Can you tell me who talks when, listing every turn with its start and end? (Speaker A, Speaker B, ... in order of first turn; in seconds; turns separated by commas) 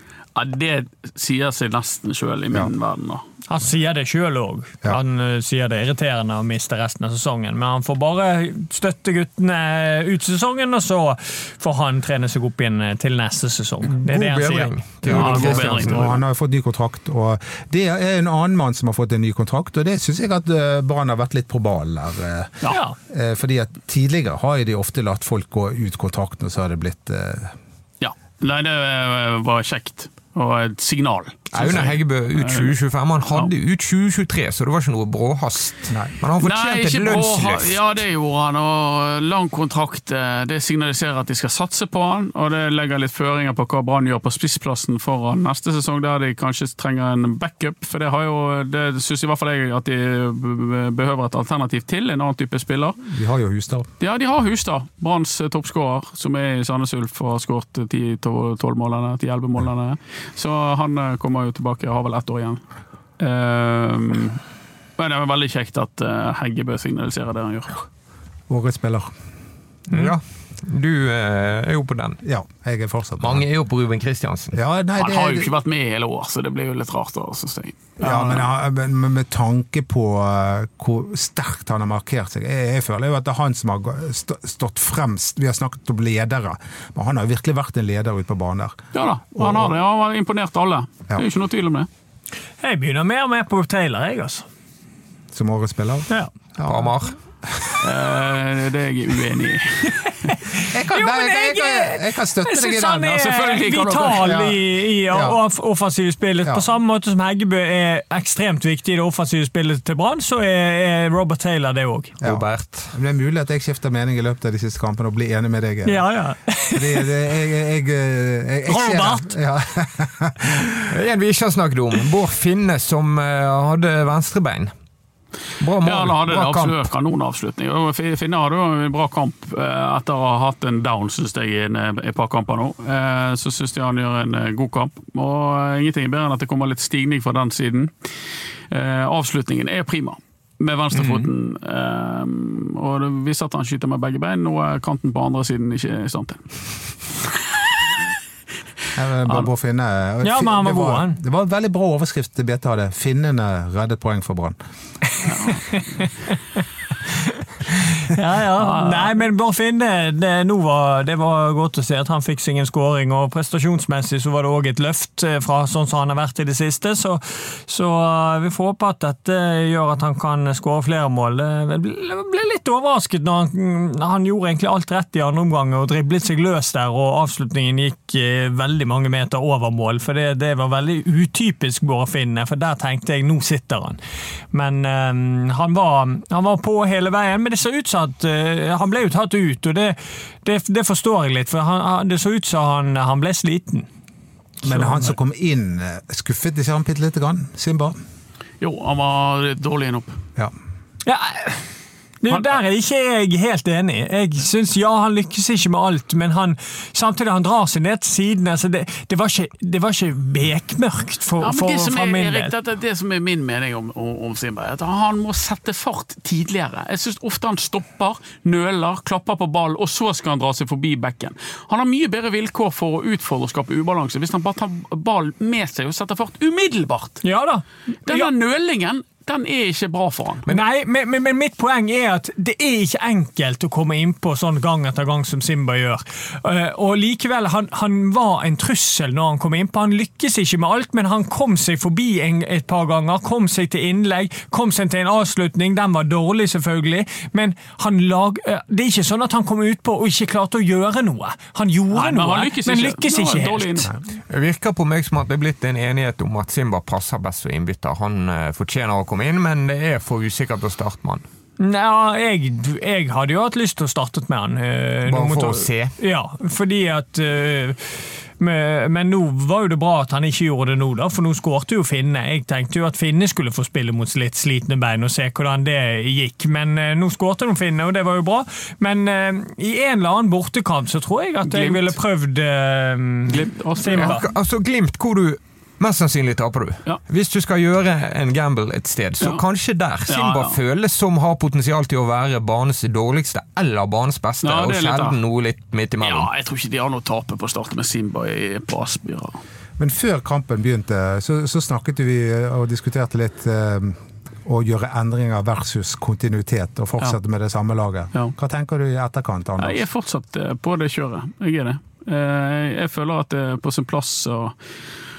Speaker A: 0.3-3.2, Speaker B: 3.5-16.2, Speaker C: 13.8-15.9, Speaker A: 15.1-16.2, Speaker D: 15.3-27.6, Speaker B: 22.7-23.0, Speaker A: 28.0-32.7, Speaker C: 31.5-37.8, Speaker A: 36.4-53.0, Speaker D: 53.1-53.9, Speaker A: 54.0-62.6, Speaker A: 63.2-64.4, Speaker A: 65.0-67.8, Speaker D: 68.5-69.1, Speaker C: 69.9-72.2, Speaker D: 72.2-73.5, Speaker C: 73.2-74.6, Speaker D: 74.5-75.5, Speaker A: 75.0-78.5, Speaker D: 78.0-88.8, Speaker A: 88.9-91.9, Speaker D: 89.4-89.7, Speaker B: 92.6-94.5, Speaker D: 95.3-96.8, Speaker C: 96.7-97.2, Speaker D: 97.5-97.8, Speaker A: 97.8-99.9, Speaker B: 100.0-112.2, Speaker D: 100.7-103.3, Speaker A: 103.2-104.4, Speaker D: 104.0-105.4, Speaker D: 112.2-116.0, Speaker C: 112.2-112.9, Speaker B: 115.8-117.1, Speaker D: 116.7-120.9, Speaker B: 118.7-119.3, Speaker C: 120.9-124.7, Speaker C: 125.6-126.8, Speaker A: 125.8-137.9, Speaker A: 138.7-146.4, Speaker B: 140.9-141.3, Speaker D: 148.9-154.6, Speaker B: 150.2-151.2, Speaker A: 155.2-156.1, Speaker B: 155.2-156.1, Speaker B: 157.1-184.0, Speaker A: 158.6-159.1, Speaker B: 184.5-193.9, Speaker B: 194.6-195.1, Speaker D: 194.6-198.0, Speaker A: 198.6-200.2, Speaker B: 201.1-201.7, Speaker B: 202.2-212.5, Speaker A: 211.4-227.2, Speaker B: 227.2-228.3, Speaker A: 228.1-230.5, Speaker B: 230.5-253.9, Speaker A: 251.9-253.9, Speaker C: 254.3-261.2, Speaker B: 261.6-284.2, Speaker C: 265.1-265.9, Speaker A: 281.5-281.9, Speaker A: 283.3-284.2, Speaker C: 283.9-296.3, Speaker A: 290.1-290.6, Speaker A: 294.4-295.2, Speaker A: 296.0-299.4, Speaker D: 299.8-309.8, Speaker A: 309.6-314.6